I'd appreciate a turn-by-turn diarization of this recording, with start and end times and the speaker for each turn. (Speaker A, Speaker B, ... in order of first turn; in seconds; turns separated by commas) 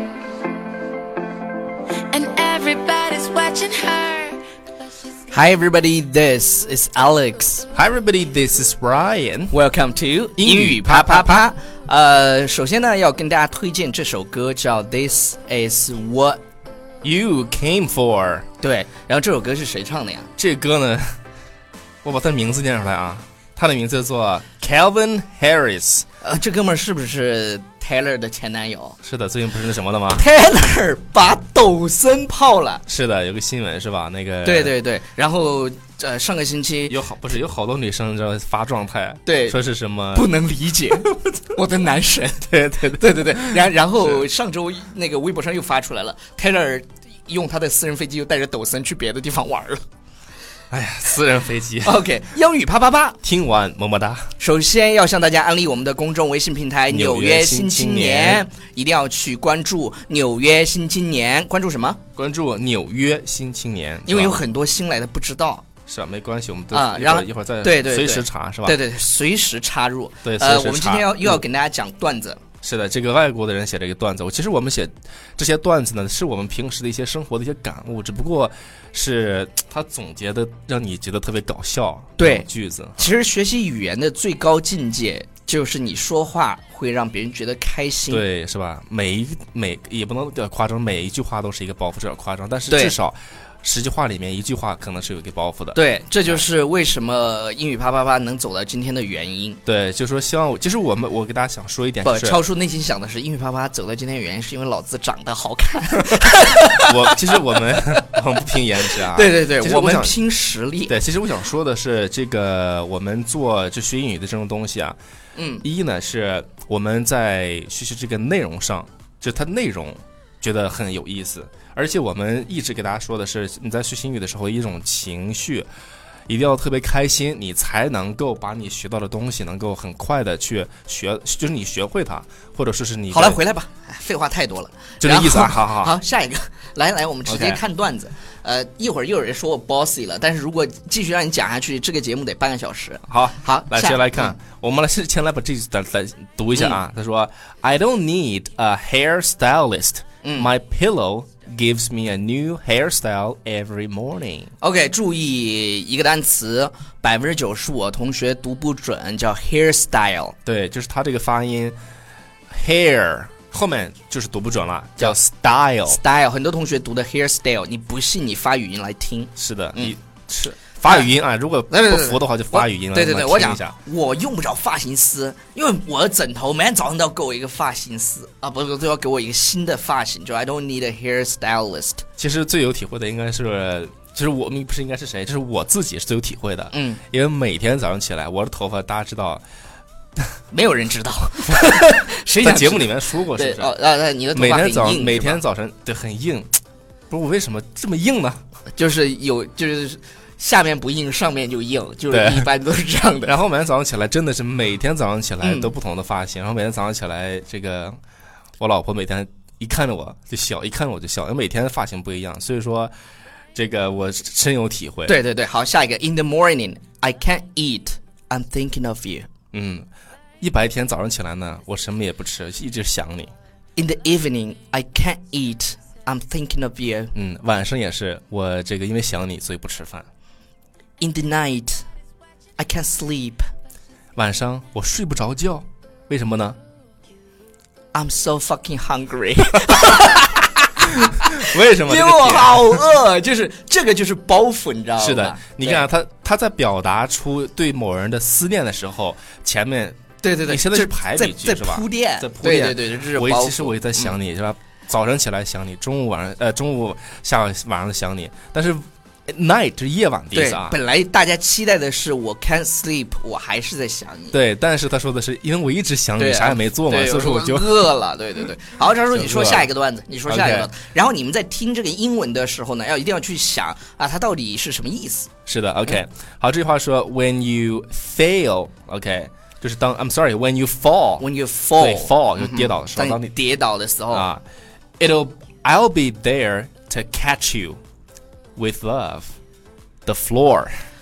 Speaker A: 2.1-4.4, Speaker B: 5.3-7.7, Speaker C: 7.7-9.5, Speaker B: 9.5-16.4, Speaker C: 10.4-11.4, Speaker C: 17.0-18.4, Speaker B: 18.6-20.3, Speaker C: 20.4-21.1, Speaker C: 22.0-26.1, Speaker B: 26.2-29.0, Speaker C: 29.0-30.2, Speaker B: 30.1-32.8, Speaker C: 32.9-34.7, Speaker B: 34.4-37.0, Speaker C: 36.9-40.3, Speaker B: 39.2-39.6, Speaker B: 40.1-49.8, Speaker C: 42.4-44.2, Speaker C: 50.7-52.0, Speaker B: 51.8-53.2, Speaker C: 53.2-54.3, Speaker B: 54.4-62.0, Speaker C: 56.9-58.5, Speaker C: 62.1-64.4, Speaker B: 64.0-65.6, Speaker C: 65.9-68.8, Speaker B: 66.7-72.4, Speaker C: 70.2-71.4, Speaker C: 72.6-83.1, Speaker B: 82.2-88.2, Speaker C: 88.1-96.4, Speaker B: 92.7-93.0, Speaker B: 95.7-99.6, Speaker C: 99.6-102.4, Speaker B: 102.0-108.1, Speaker C: 106.8-110.2, Speaker B: 108.8-110.9, Speaker C: 110.8-115.0, Speaker B: 115.3-115.6, Speaker C: 115.6-125.7, Speaker C: 126.3-133.4, Speaker B: 133.1-144.4, Speaker C: 135.0-135.9, Speaker C: 137.2-137.6, Speaker C: 143.1-154.5, Speaker B: 146.5-146.8, Speaker B: 150.2-150.5, Speaker B: 154.6-160.3, Speaker C: 160.4-161.8, Speaker C: 162.5-166.0, Speaker B: 165.9-169.9, Speaker C: 169.4-173.8, Speaker B: 171.7-182.0, Speaker C: 182.2-189.4, Speaker B: 186.7-187.0, Speaker B: 190.5-195.4, Speaker C: 191.5-193.7, Speaker C: 194.3-196.5, Speaker C: 197.1-198.4, Speaker B: 198.7-203.3, Speaker C: 202.1-202.5, Speaker C: 203.2-208.0, Speaker B: 205.4-205.7, Speaker C: 208.6-212.9, Speaker C: 213.5-215.2, Speaker B: 215.1-219.3, Speaker C: 219.5-219.8, Speaker C: 220.4-223.3, Speaker B: 223.8-227.1, Speaker C: 227.1-230.1, Speaker B: 231.0-231.8, Speaker B: 232.6-233.4, Speaker C: 234.1-236.6, Speaker B: 237.9-245.8, Speaker C: 239.8-240.1, Speaker C: 241.3-242.8, Speaker C: 245.0-260.8, Speaker B: 250.2-254.2, Speaker B: 260.3-264.4, Speaker C: 264.3-267.9, Speaker B: 266.2-275.3, Speaker C: 269.1-269.7, Speaker C: 270.2-270.7, Speaker C: 275.5-281.2, Speaker B: 281.2-284.3, Speaker C: 281.8-283.3, Speaker C: 284.1-284.4, Speaker C: 285.0-287.8, Speaker C: 288.6-289.3, Speaker C: 290.1-290.7